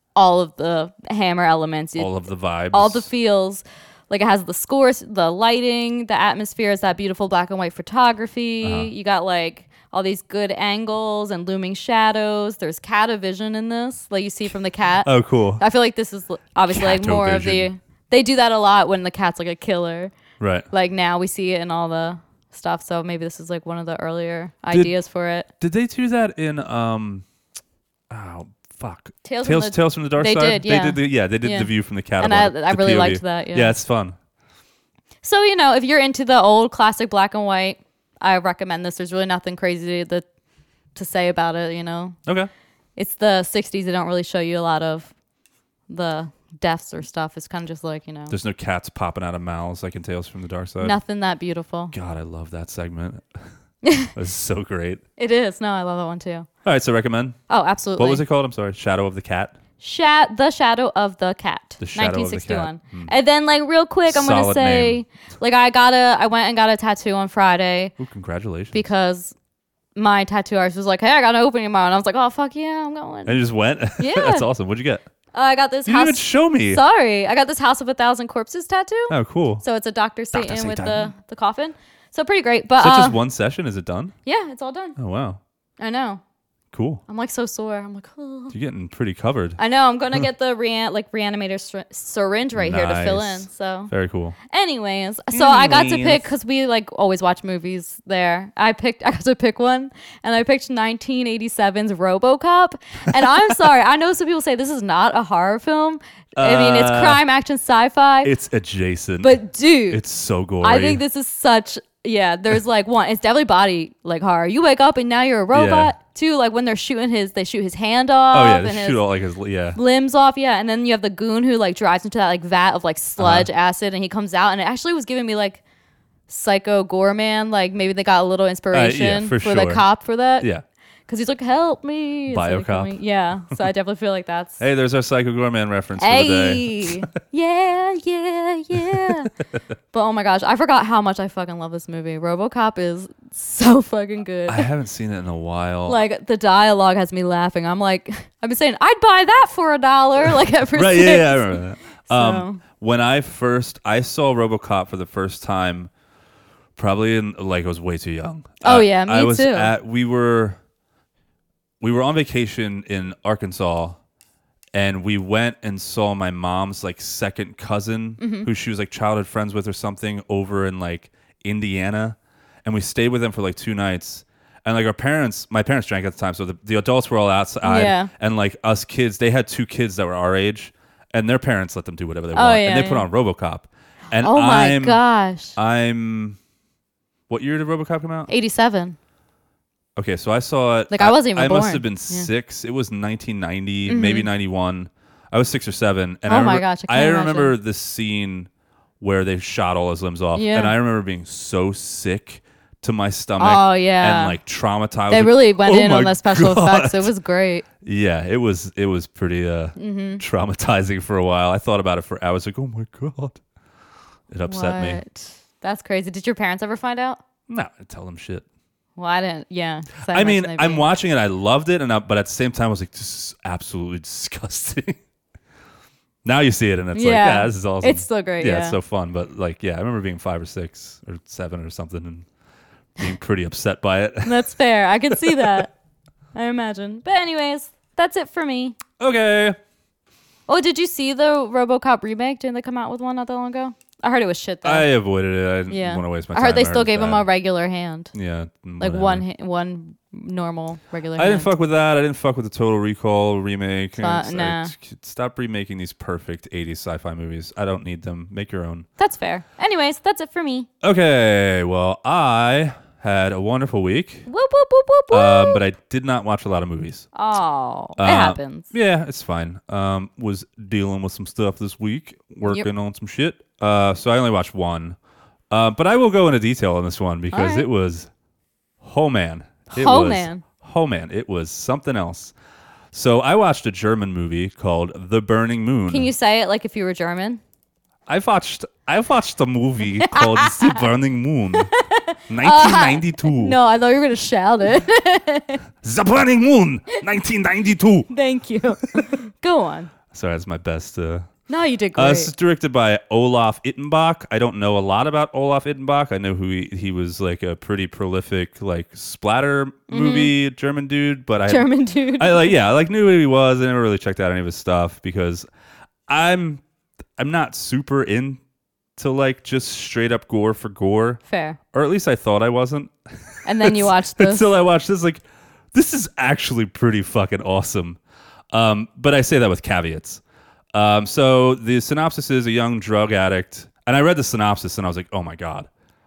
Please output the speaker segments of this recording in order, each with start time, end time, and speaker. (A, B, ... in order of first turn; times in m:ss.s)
0:00.2-0:02.2 A
0:02.0-0:03.1 B
0:02.7-0:20.1 A
0:08.6-0:08.9 B
0:15.0-0:15.6 B
0:16.7-0:17.7 B
0:20.4-0:20.7 B
0:20.7-0:25.5 A
0:25.6-0:27.2 B
0:28.1-0:34.2 B
0:29.2-0:33.7 A
0:35.2-0:40.3 A
0:41.0-0:42.2 A
0:43.0-0:45.1 A
0:45.9-0:48.4 A
0:48.3-0:51.0 B
0:50.8-0:51.9 A
0:51.9-0:53.4 B
0:53.8-0:54.1 A
0:54.1-0:55.0 B
0:55.2-0:56.5 A
0:56.6-0:57.4 B
0:57.5-0:58.2 A
0:58.0-0:59.5 B
0:59.8-1:07.9 A
1:01.8-1:03.1 B
1:04.1-1:05.0 B
1:08.0-1:08.8 B
1:08.7-1:09.4 A
1:10.0-1:13.4 A
1:13.3-1:15.0 B
1:14.0-1:14.5 A
1:15.3-1:23.2 A
1:15.8-1:16.8 B
1:19.1-1:19.6 B
1:20.3-1:21.1 B
1:22.8-1:24.2 B
1:24.2-1:25.0 A
1:25.0-1:25.4 B
1:25.8-1:26.2 A
1:26.7-1:27.0 B
1:27.1-1:28.5 A
1:28.5-1:29.6 B
1:29.6-1:33.9 A
1:32.6-1:34.4 B
1:34.5-1:48.3 A
1:35.3-1:36.3 B
1:46.4-1:47.2 B
1:48.2-1:51.0 B
1:49.2-1:50.0 A
1:50.6-1:59.0 A
1:55.5-1:55.9 B
1:58.3-1:59.8 B
1:59.7-2:05.6 A
2:03.2-2:03.5 B
2:06.3-2:10.5 A
2:08.7-2:09.8 B
2:11.1-2:14.6 A
2:12.3-2:13.0 B
2:14.6-2:17.0 B
2:16.0-2:19.3 A
2:19.9-2:24.7 A
2:24.5-2:26.0 B
2:25.9-2:32.6 A
2:30.7-2:35.9 B
2:36.8-2:40.6 B
2:38.6-2:39.7 A
2:41.8-2:44.0 B
2:44.7-3:05.0 B
2:48.2-2:48.5 A
2:57.6-2:58.1 A
3:02.3-3:03.1 A
3:04.2-3:05.6 A
3:05.6-3:06.4 B
3:07.3-3:08.3 B
3:08.3-3:09.0 A
3:10.0-3:18.5 B
3:10.9-3:12.3 A
3:13.9-3:14.3 A
3:16.3-3:17.5 A
3:19.0-3:27.1 B
3:20.4-3:20.7 A
3:23.4-3:24.4 A
3:25.1-3:27.7 A
3:27.8-3:33.4 B
3:29.8-3:30.2 A
3:34.3-3:35.0 B
3:34.5-3:37.2 A
3:37.5-3:38.4 B
3:39.0-3:40.8 A
3:40.0-3:45.0 B
3:46.2-3:52.2 B
3:46.9-3:48.8 A
3:53.0-3:54.3 B
3:54.2-3:55.7 A
3:55.2-3:55.6 B
3:56.3-3:58.8 A
3:59.0-3:59.6 B
4:00.5-4:04.9 A
4:04.6-4:07.3 B
4:05.7-4:08.1 A
4:08.1-4:09.2 B
4:08.8-4:11.5 A
4:11.2-4:18.9 B
4:14.0-4:14.7 A
4:19.0-4:20.7 A
4:20.8-4:24.3 B
4:24.3-4:25.6 A
4:25.1-4:27.1 B
4:27.1-4:28.7 A
4:28.0-4:35.0 B
4:35.5-4:38.1 B
4:37.3-4:37.7 A
4:38.8-4:42.3 B
4:39.7-4:40.4 A
4:42.9-4:46.1 B
4:45.9-4:47.4 A
4:48.1-4:51.7 B
4:50.0-4:50.9 A
4:51.5-4:55.6 A
4:52.3-4:53.6 B
4:55.8-4:58.1 B
4:58.1-4:59.9 A
5:00.1-5:01.3 B
5:01.5-5:02.3 A
5:02.0-5:15.5 B
5:09.9-5:10.3 A
5:11.5-5:12.5 A
5:16.1-5:16.6 B
5:17.2-5:18.4 B
5:19.0-5:21.2 B
5:21.3-5:21.6 A
5:21.7-5:22.9 B
5:23.4-5:24.5 A
5:23.6-5:25.2 B
5:25.7-5:28.0 B
5:28.5-5:30.2 B
5:30.7-5:35.7 B